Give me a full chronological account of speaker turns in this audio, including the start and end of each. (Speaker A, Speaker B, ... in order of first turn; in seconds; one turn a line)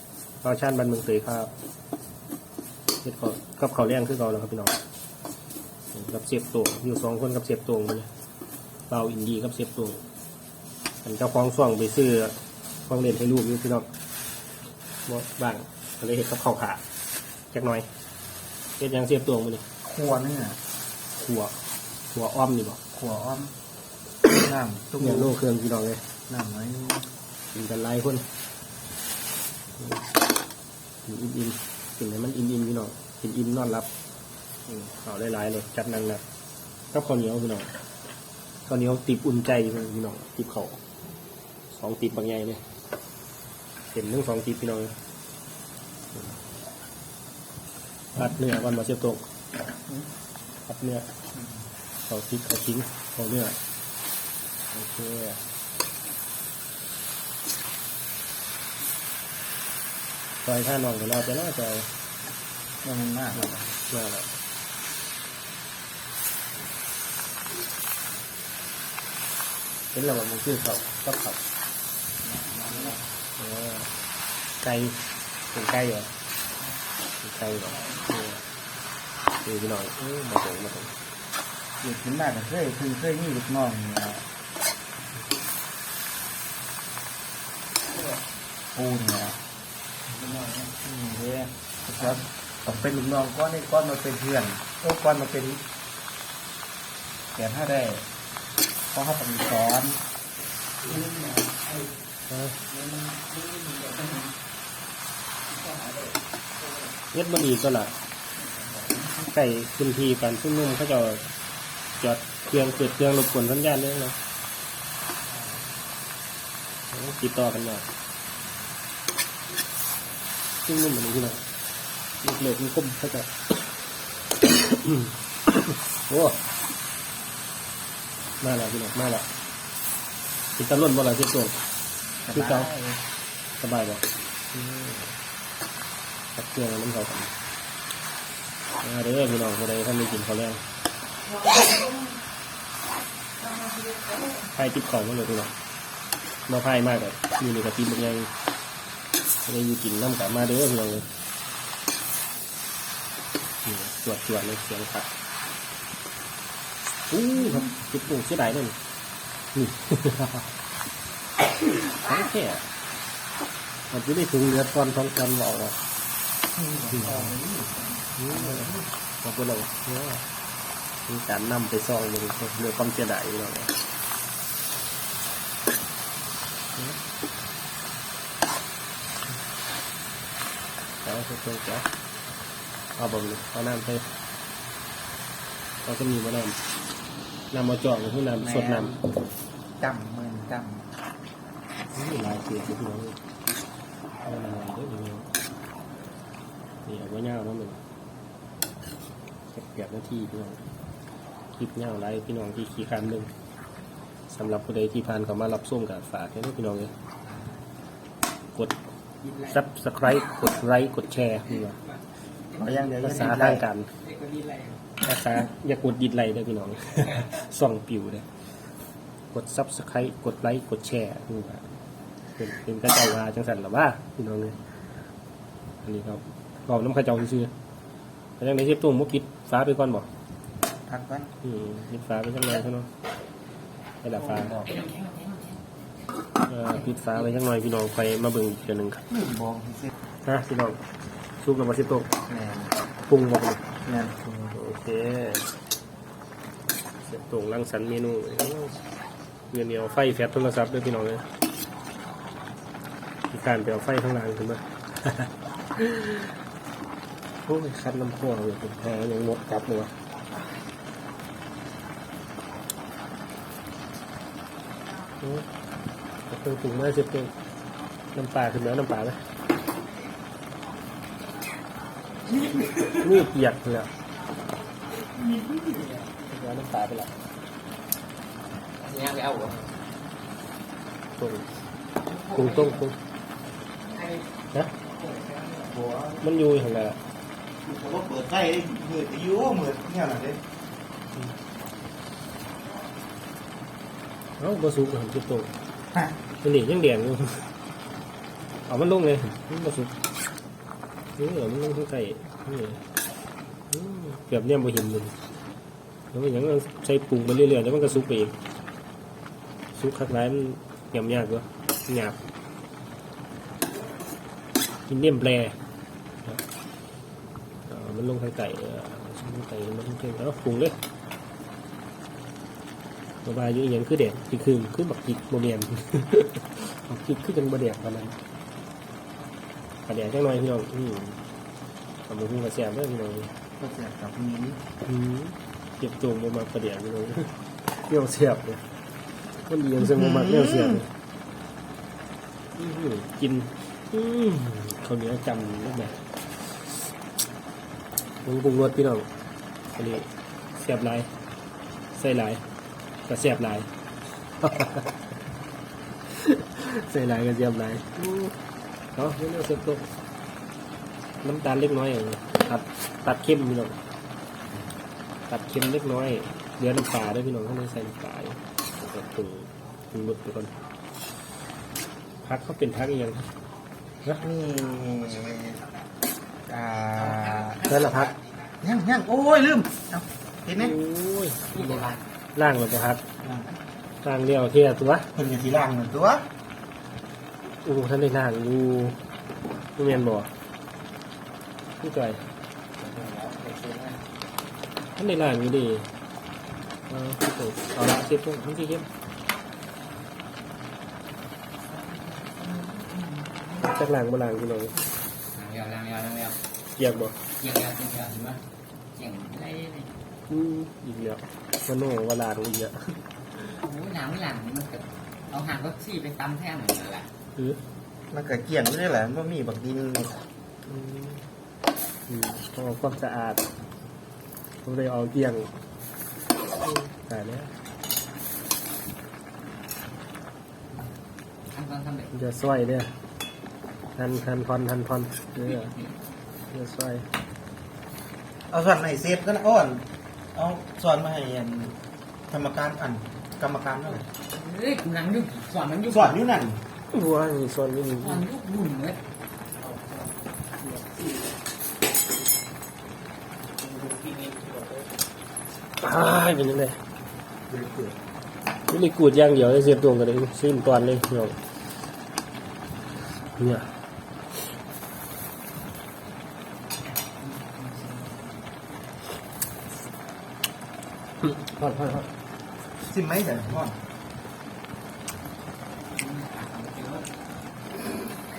Speaker A: 0.4-1.5
Speaker A: 3.0-4.8
Speaker A: 5.9-8.1
Speaker A: 8.9-10.0
Speaker A: 11.0-12.3
Speaker A: 12.9-13.9
Speaker A: 15.1-16.8
Speaker A: 17.5-17.9
Speaker A: 18.8-19.6
Speaker B: 19.8-20.6
Speaker A: 21.1-21.6
Speaker A: 22.1-22.8
Speaker B: 22.9-23.5
Speaker B: 24.3-25.3
Speaker A: 25.0-26.0
Speaker B: 26.3-27.1
Speaker A: 27.5-28.3
Speaker A: 29.8-30.1
Speaker A: 31.0-33.9
Speaker A: 34.7-36.2
Speaker A: 36.9-37.7
Speaker A: 38.6-40.8
Speaker A: 41.7-42.6
Speaker A: 43.9-44.9
Speaker A: 48.1-49.2
Speaker A: 50.7-51.1
Speaker A: 52.1-53.6
Speaker A: 54.7-55.4
Speaker A: 60.4-61.9
Speaker B: 62.8-63.7
Speaker A: 63.4-64.4
Speaker A: 69.9-71.4
Speaker C: 72.2-73.0
Speaker A: 73.4-73.9
Speaker A: 74.6-75.0
Speaker A: 75.5-76.1
Speaker A: 77.2-78.4
Speaker C: 77.7-78.1
Speaker A: 79.4-80.9
Speaker B: 81.8-84.2
Speaker C: 87.9-88.2
Speaker B: 88.7-89.4
Speaker C: 90.1-90.7
Speaker B: 90.8-95.6
Speaker B: 97.3-98.0
Speaker B: 98.9-100.0
Speaker C: 100.8-101.9
Speaker A: 102.3-102.5
Speaker C: 102.6-104.3
Speaker C: 105.5-106.9
Speaker A: 107.1-107.9
Speaker C: 108.4-109.1
Speaker A: 109.2-111.2
Speaker A: 112.0-114.2
Speaker C: 115.4-115.6
Speaker A: 116.9-117.8
Speaker A: 120.6-121.4
Speaker A: 122.2-123.6
Speaker A: 124.4-126.4
Speaker A: 128.4-129.3
Speaker A: 130.6-131.6
Speaker B: 132.2-133.0
Speaker A: 132.3-132.7
Speaker A: 133.6-135.1
Speaker A: 136.3-137.3
Speaker A: 138.8-140.6
Speaker A: 144.4-145.5
Speaker A: 146.5-148.3
Speaker A: 149.4-151.1
Speaker A: 153.6-155.1
Speaker A: 157.1-158.8
Speaker A: 159.5-160.5
Speaker A: 161.7-162.6
Speaker A: 163.9-165.8
Speaker B: 166.6-168.8
Speaker A: 167.0-167.2
Speaker A: 168.2-170.2
Speaker A: 171.1-173.7
Speaker A: 181.0-181.9
Speaker A: 182.9-184.1
Speaker A: 185.8-186.6
Speaker A: 187.5-189.0
Speaker B: 188.4-189.0
Speaker B: 189.8-190.8
Speaker A: 191.9-193.2
Speaker A: 194.2-195.3
Speaker A: 196.8-197.8
Speaker A: 199.5-200.6
Speaker A: 201.6-203.3
Speaker A: 204.3-206.9
Speaker C: 209.2-209.6
Speaker A: 209.4-211.8
Speaker C: 211.8-213.4
Speaker B: 212.5-213.6
Speaker A: 213.0-213.9
Speaker C: 213.9-214.8
Speaker A: 215.0-218.3
Speaker A: 219.3-221.6
Speaker A: 222.4-224.6
Speaker A: 225.8-227.5
Speaker A: 228.4-230.1
Speaker B: 230.8-231.3
Speaker A: 231.4-232.9
Speaker A: 234.0-234.6
Speaker B: 234.3-234.7
Speaker C: 234.4-235.7
Speaker A: 236.4-239.0
Speaker C: 236.7-237.2
Speaker B: 239.1-239.9
Speaker A: 240.2-240.8
Speaker A: 241.4-242.1
Speaker B: 242.3-242.7
Speaker A: 243.1-245.5
Speaker B: 243.8-244.1
Speaker A: 247.0-248.8
Speaker A: 249.5-251.3
Speaker A: 253.3-256.4
Speaker A: 257.4-259.9
Speaker A: 265.2-265.5
Speaker A: 266.3-267.3
Speaker A: 268.1-269.2
Speaker C: 272.3-273.0
Speaker A: 272.9-273.9
Speaker C: 274.9-276.1
Speaker A: 276.3-277.1
Speaker C: 278.8-279.7
Speaker A: 281.2-281.5
Speaker C: 282.0-282.8
Speaker A: 282.3-283.0
Speaker C: 283.8-285.7
Speaker B: 285.7-286.2
Speaker A: 286.2-287.0
Speaker B: 287.6-290.4
Speaker A: 294.4-295.5
Speaker A: 296.4-297.5
Speaker A: 298.7-299.9
Speaker A: 301.2-302.8
Speaker A: 303.7-305.1
Speaker A: 306.1-308.4
Speaker A: 309.7-312.2
Speaker A: 314.9-315.6
Speaker A: 317.7-320.8
Speaker A: 323.2-328.2
Speaker A: 329.9-331.2
Speaker A: 332.1-333.3
Speaker B: 333.6-334.6
Speaker A: 334.8-338.6
Speaker A: 339.4-340.9
Speaker B: 340.2-340.6
Speaker A: 342.5-346.9
Speaker A: 348.2-349.1
Speaker A: 349.7-351.1
Speaker A: 351.9-352.4
Speaker A: 353.1-353.7
Speaker A: 354.4-355.0
Speaker A: 356.1-358.3
Speaker A: 358.9-359.9
Speaker A: 361.2-363.8
Speaker A: 365.3-370.5
Speaker A: 372.2-373.3
Speaker B: 374.1-375.6
Speaker B: 376.5-377.7
Speaker C: 377.0-378.0
Speaker A: 377.6-378.1
Speaker B: 378.6-380.7
Speaker A: 380.6-383.0
Speaker C: 381.5-382.1
Speaker B: 383.2-383.6
Speaker A: 384.0-385.1
Speaker B: 385.1-386.2
Speaker A: 387.6-389.0
Speaker A: 389.8-390.3
Speaker A: 391.8-392.2
Speaker C: 392.8-394.0
Speaker A: 394.9-395.9
Speaker A: 396.9-398.9
Speaker C: 401.6-403.7
Speaker A: 403.6-404.8
Speaker C: 405.3-406.4
Speaker A: 406.8-407.2
Speaker C: 407.4-408.4
Speaker C: 408.9-410.0
Speaker A: 410.3-413.6
Speaker C: 413.5-417.1
Speaker A: 417.4-417.6
Speaker B: 418.1-420.2
Speaker A: 420.6-421.2
Speaker A: 422.1-423.5
Speaker A: 424.6-425.5
Speaker A: 426.6-427.5
Speaker C: 431.5-432.1
Speaker A: 432.1-432.9
Speaker A: 433.9-435.7
Speaker C: 435.4-435.9
Speaker A: 436.5-437.1
Speaker B: 438.5-441.8
Speaker B: 442.3-444.1
Speaker C: 444.1-446.2
Speaker B: 445.9-446.6
Speaker A: 446.9-448.3
Speaker C: 448.0-449.0
Speaker C: 449.6-450.1
Speaker C: 453.6-454.9
Speaker A: 455.8-456.8
Speaker B: 457.5-458.0
Speaker A: 458.7-461.4
Speaker A: 463.4-463.7
Speaker C: 467.0-468.4
Speaker A: 471.2-472.1
Speaker B: 472.8-473.8
Speaker C: 475.9-477.1